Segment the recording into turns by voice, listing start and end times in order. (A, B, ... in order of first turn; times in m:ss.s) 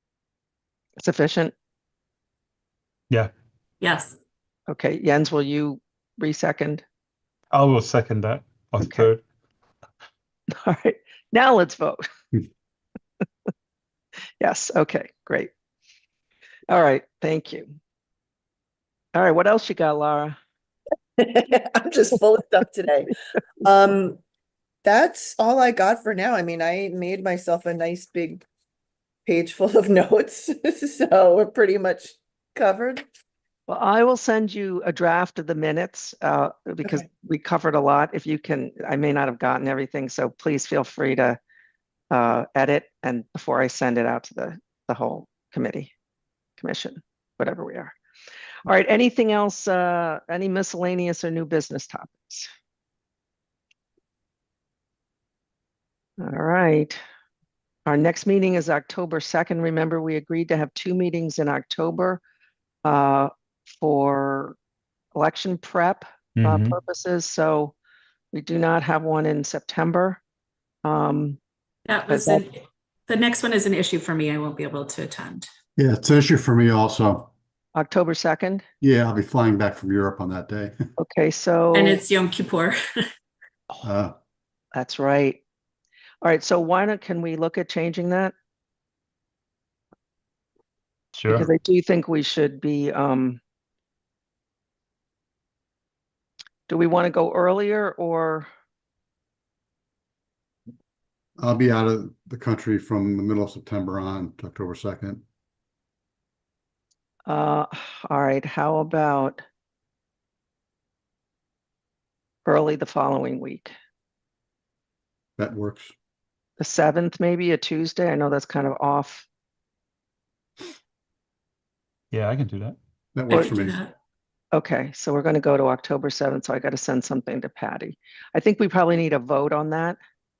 0:01.0-0:01.5 A
0:03.8-0:04.2 B
0:04.7-0:06.8 A
0:07.5-0:09.2 C
0:08.8-0:09.1 A
0:10.5-0:12.1 A
0:14.4-0:15.5 A
0:16.7-0:17.7 A
0:19.1-0:20.4 A
0:21.2-0:24.2 D
0:24.8-0:28.4 D
0:29.2-0:33.0 D
0:33.7-0:41.4 A
0:42.1-0:45.9 A
0:46.6-0:47.9 A
0:48.6-0:52.5 A
0:56.2-0:57.0 A
0:57.8-1:02.2 A
1:02.8-1:04.6 A
1:05.1-1:07.7 A
1:06.3-1:06.8 C
1:08.3-1:10.2 A
1:10.8-1:11.4 A
1:11.9-1:15.5 B
1:12.1-1:12.4 A
1:15.8-1:17.3 E
1:17.7-1:18.6 A
1:18.8-1:20.8 E
1:21.0-1:22.0 A
1:21.7-1:23.0 B
1:23.8-1:24.1 E
1:24.7-1:25.4 A
1:26.2-1:28.3 A
1:31.1-1:31.5 C
1:31.3-1:33.4 A
1:36.7-1:38.5 A
1:41.4-1:45.2 E
1:47.2-1:49.4 A
1:52.4-1:53.7 A
1:55.4-1:55.9 E
1:56.6-1:59.3 A
2:02.1-2:02.8 C
2:03.1-2:03.8 E
2:03.3-2:03.9 B
2:03.3-2:03.6 A
2:04.5-2:10.0 A